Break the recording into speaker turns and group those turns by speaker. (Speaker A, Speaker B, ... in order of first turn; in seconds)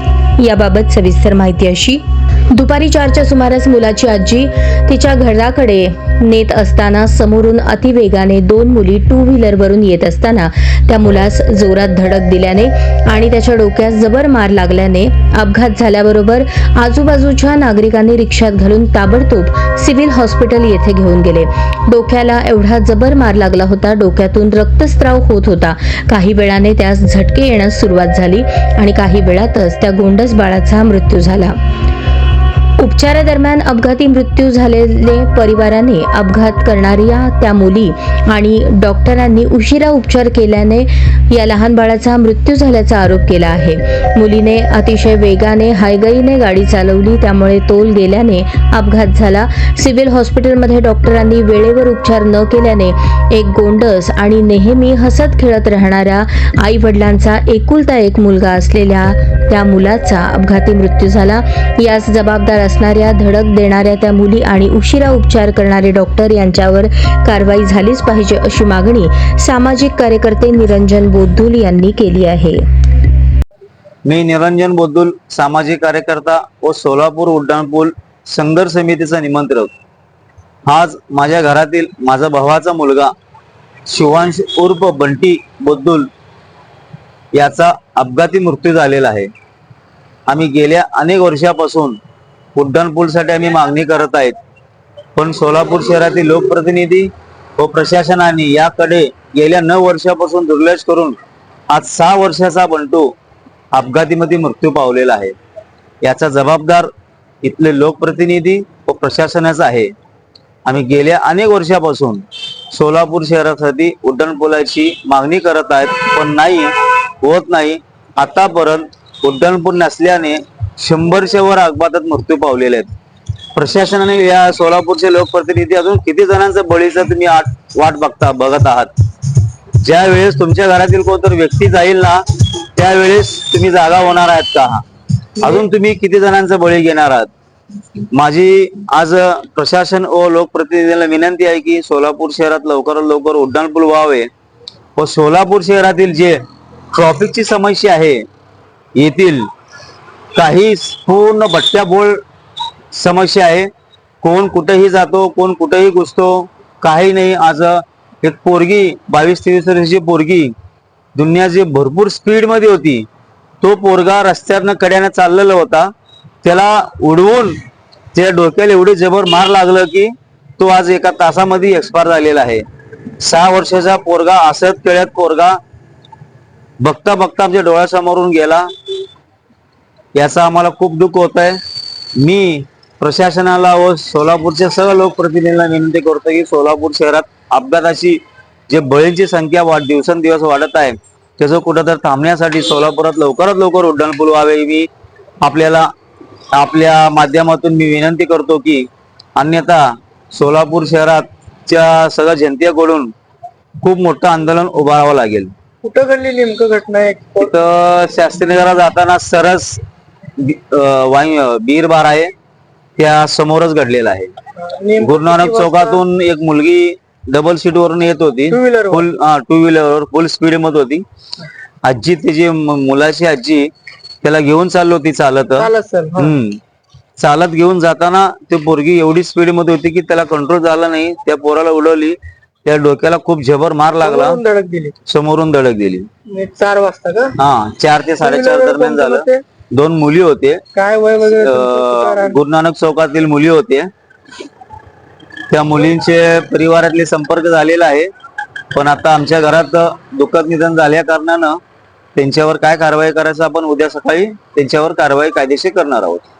Speaker A: 0.4-31.6, 32.8-72.6
Speaker B: 74.0-79.7, 80.7-83.1, 83.9-86.1, 87.3-89.3, 90.3-92.0, 92.5-94.3, 95.2-101.2, 101.7-103.1, 103.7-105.3, 106.0-106.9, 107.4-109.9, 110.6-122.9, 123.5-128.9, 129.8-134.8, 135.4-137.3, 138.0-144.3, 145.0-146.4, 146.9-148.2, 148.9-149.5, 150.3-152.2, 152.9-153.7, 154.2-160.5, 161.2-163.1, 163.6-165.9, 166.4-167.6, 168.1-172.6, 173.2-175.6, 176.8-178.7, 180.1-181.6, 182.2-194.9, 195.4-195.9, 196.5-203.1, 203.8-205.5, 207.4-209.8, 210.4-212.3, 213.0-214.3, 215.0-221.0, 221.8-223.7, 224.2-226.6, 227.2-234.4, 235.1-236.1, 237.4-240.6, 241.3-243.9, 245.5-248.1, 248.7-251.6, 252.2-256.2
Speaker C: 205.8-207.5, 214.6-216.0, 218.5-219.0, 225.6-226.4, 234.0-234.9, 236.3-237.4, 238.2-239.4, 240.8-242.4